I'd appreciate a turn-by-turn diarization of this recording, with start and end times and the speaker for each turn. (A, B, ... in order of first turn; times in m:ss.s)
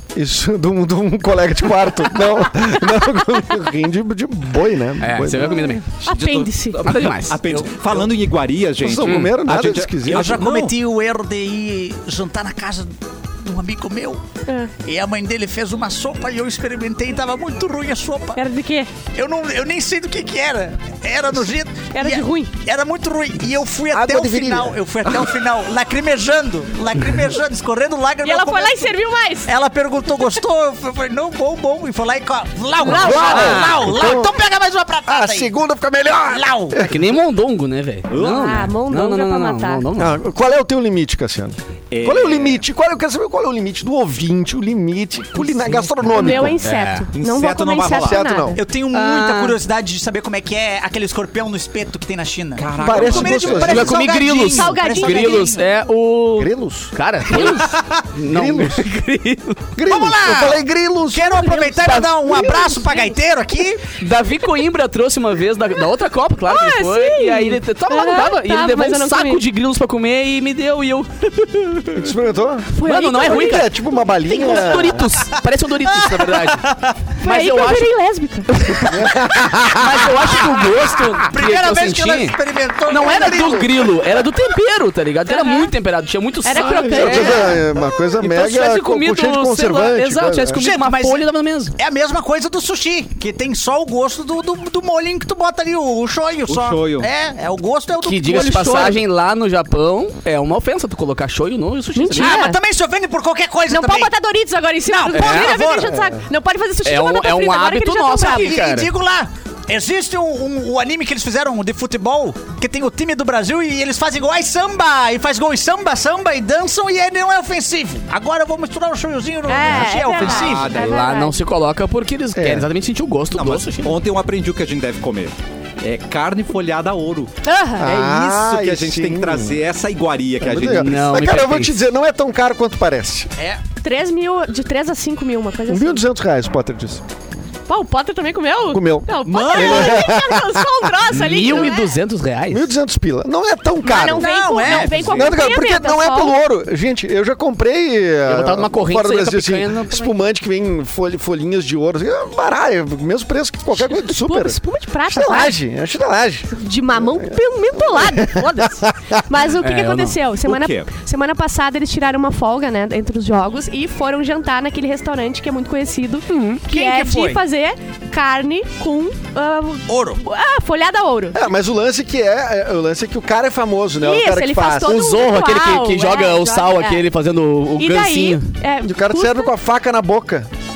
0:00.1-0:05.8 A
0:05.0-0:05.8 B
0:06.0-0:10.7 C
0:06.0-0:06.8 D
0:06.8-0:07.4 B
0:07.5-0:08.0 E
0:08.8-0:10.4 A
0:09.0-0:09.4 B
0:10.1-0:14.2 E
0:14.5-0:14.7 D
0:14.8-0:18.4 E
0:18.4-0:18.9 D
0:19.1-0:35.5 E
0:21.9-0:22.5 D
0:23.9-0:24.8 A
0:28.2-0:29.5 D
0:32.8-0:33.6 D
0:32.8-0:34.3 A
0:35.1-0:37.1 A
0:36.2-0:36.8 E
0:36.8-0:40.2 B
0:38.1-0:38.7 C
0:38.3-0:39.8 D
0:40.0-0:46.6 A
0:41.9-0:42.6 C
0:45.4-0:46.5 C
0:46.1-0:48.6 D
0:46.6-0:47.0 B
0:47.1-0:48.2 C
0:47.9-0:48.6 A
0:48.5-0:55.7 E
0:48.9-0:49.6 B
0:52.6-0:53.9 C
0:52.8-0:54.0 A
0:53.6-0:59.6 B
0:54.4-0:55.6 D
0:56.4-0:56.9 A
0:57.3-0:58.0 E
0:58.2-0:58.8 A
0:59.7-1:01.9 A
0:59.8-1:03.8 E
1:01.9-1:03.1 D
1:04.0-1:12.1 B
1:06.4-1:09.4 D
1:11.9-1:15.0 A
1:12.8-1:13.7 D
1:12.8-1:13.7 B
1:14.2-1:18.0 B
1:14.4-1:14.7 D
1:15.9-1:16.9 E
1:17.2-1:18.5 D
1:18.5-1:22.4 B
1:18.8-1:20.0 A
1:21.3-1:23.9 E
1:22.9-1:27.6 B
1:25.3-1:25.7 D
1:26.4-1:27.6 D
1:26.7-1:30.6 A
1:28.2-1:31.7 B
1:30.6-1:39.0 E
1:36.5-1:37.1 C
1:38.0-1:42.4 B
1:41.9-1:42.6 D
1:42.2-1:44.1 E
1:43.7-1:48.5 D
1:44.8-1:45.9 E
1:45.1-1:45.6 B
1:45.7-1:46.3 A
1:46.8-1:48.9 B
1:48.2-2:00.7 E
1:59.5-2:01.4 D
2:00.2-2:01.1 C
2:00.6-2:04.0 B
2:02.3-2:02.7 A
2:03.3-2:07.3 C
2:07.4-2:08.0 D
2:07.8-2:09.6 A
2:07.8-2:11.1 C
2:10.4-2:13.3 A
2:10.6-2:11.8 B
2:13.8-2:16.0 D
2:15.7-2:17.0 A
2:17.7-2:21.9 D
2:18.7-2:20.8 A
2:19.2-2:20.1 C
2:21.1-2:22.7 B
2:22.5-2:39.2 A
2:23.8-2:26.3 D
2:24.1-2:25.1 E
2:24.7-2:25.4 C
2:28.2-2:30.1 B
2:33.8-2:35.5 D
2:36.5-2:51.4 D
2:39.6-2:40.2 B
2:40.4-2:40.9 C
2:46.3-2:46.6 B
2:46.7-2:47.4 E
2:49.9-2:50.2 E
2:51.3-2:55.0 A
2:54.0-2:57.0 D
2:54.8-2:58.5 B
2:57.8-2:59.5 D
2:58.8-3:00.5 A